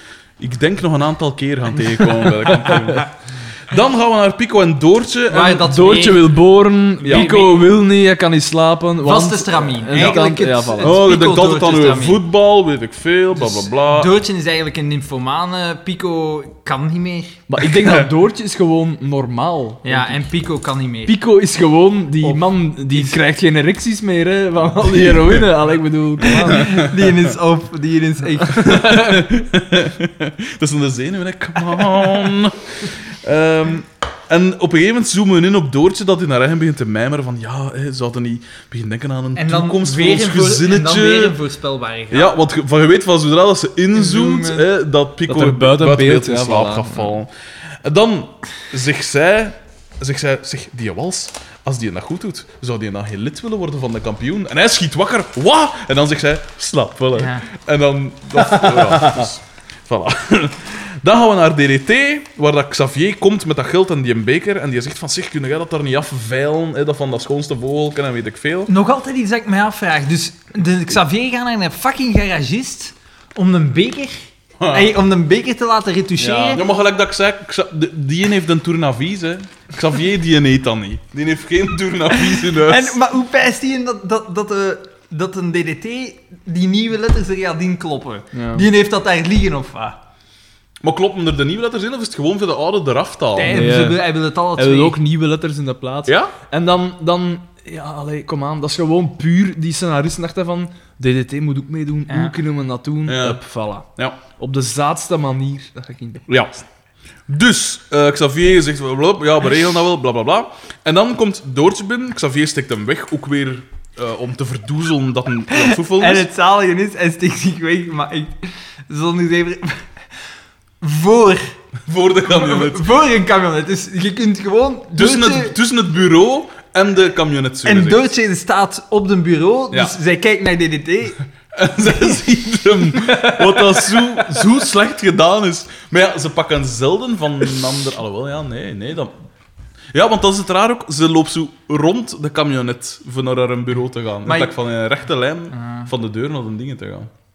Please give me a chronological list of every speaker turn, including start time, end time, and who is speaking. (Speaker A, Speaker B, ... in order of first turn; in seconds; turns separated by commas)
Speaker A: 0.4-3.1, Speaker B: 2.4-3.0, Speaker A: 3.7-5.7, Speaker C: 5.3-6.4, Speaker B: 5.6-11.0, Speaker A: 7.0-7.4, Speaker C: 7.0-7.7, Speaker C: 9.0-12.2, Speaker A: 9.9-10.2, Speaker A: 10.8-14.1, Speaker C: 13.4-17.5, Speaker B: 17.5-20.3, Speaker C: 19.8-21.2, Speaker B: 21.1-26.8, Speaker C: 22.2-23.2, Speaker A: 24.9-25.4, Speaker C: 26.3-29.0, Speaker A: 26.5-26.9, Speaker A: 28.5-41.4, Speaker B: 28.6-29.1, Speaker C: 39.4-42.4, Speaker A: 42.1-47.3, Speaker C: 43.9-44.7, Speaker B: 45.3-47.2, Speaker A: 47.8-68.7, Speaker C: 57.2-57.5, Speaker C: 58.6-58.9, Speaker C: 68.7-76.6, Speaker A: 74.6-74.9, Speaker B: 76.2-76.6, Speaker A: 76.5-83.0, Speaker C: 82.2-90.0, Speaker B: 88.3-88.7, Speaker A: 90.8-93.7, Speaker C: 93.4-95.0, Speaker B: 93.5-103.9, Speaker A: 96.1-96.3, Speaker C: 102.1-102.3, Speaker A: 103.1-103.4, Speaker B: 104.4-106.3, Speaker A: 106.3-106.6, Speaker A: 107.3-116.3, Speaker C: 115.5-119.8, Speaker C: 120.8-121.5, Speaker A: 121.9-122.9, Speaker C: 122.3-125.6, Speaker A: 124.9-128.1, Speaker C: 127.7-131.2, Speaker A: 131.5-139.2, Speaker A: 139.9-147.1, Speaker C: 144.2-144.6, Speaker C: 145.5-145.9